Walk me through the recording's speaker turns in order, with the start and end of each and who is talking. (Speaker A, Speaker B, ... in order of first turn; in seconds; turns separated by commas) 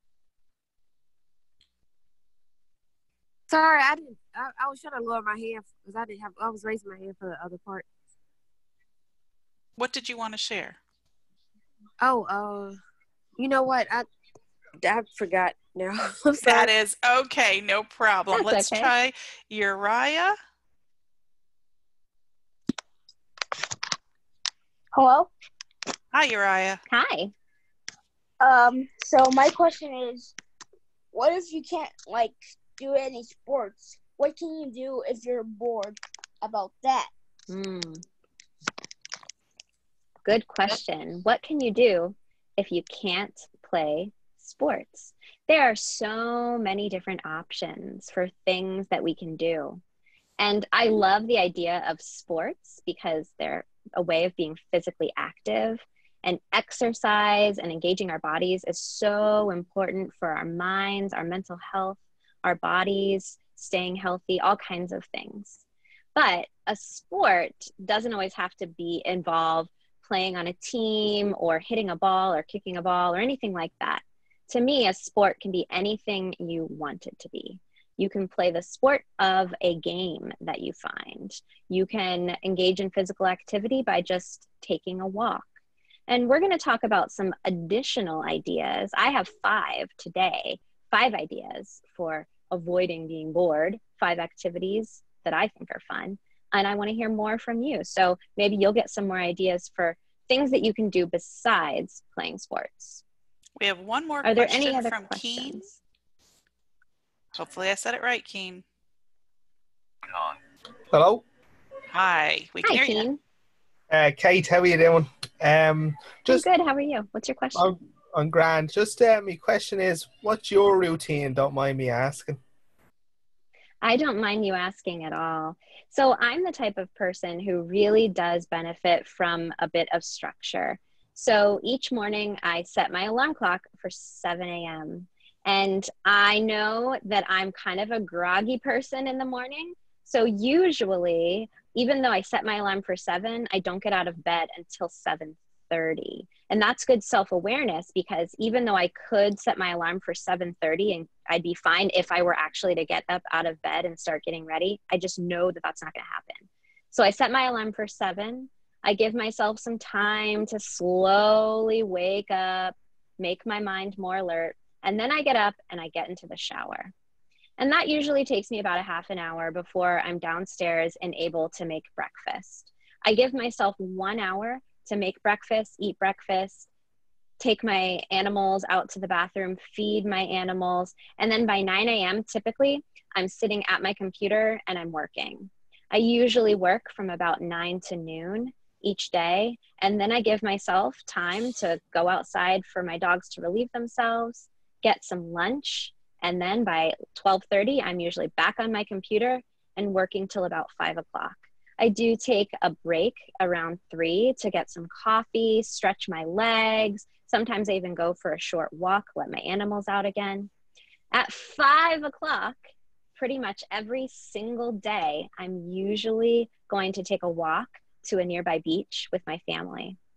Speaker A: 3.5-7.9, Speaker B: 9.8-10.8, Speaker A: 12.0-12.8, Speaker A: 13.3-14.1, Speaker A: 14.8-16.7, Speaker B: 16.4-20.3, Speaker C: 18.3-18.9, Speaker D: 24.9-25.3, Speaker B: 26.1-26.8, Speaker C: 26.9-27.3, Speaker D: 28.4-30.3, Speaker D: 31.1-37.1, Speaker C: 37.5-38.0, Speaker C: 40.2-49.8, Speaker C: 50.4-65.6, Speaker C: 66.1-85.5, Speaker C: 86.1-103.0, Speaker B: 103.6-105.7, Speaker C: 104.2-105.8, Speaker B: 107.3-108.6, Speaker E: 110.9-111.2, Speaker B: 111.9-113.0, Speaker C: 112.6-113.2, Speaker E: 113.9-116.5, Speaker C: 116.3-117.7, Speaker E: 117.5-122.4, Speaker C: 123.8-166.9, Speaker C: 167.6-176.7, Speaker C: 177.4-210.5, Speaker C: 211.1-212.6, Speaker C: 213.1-220.0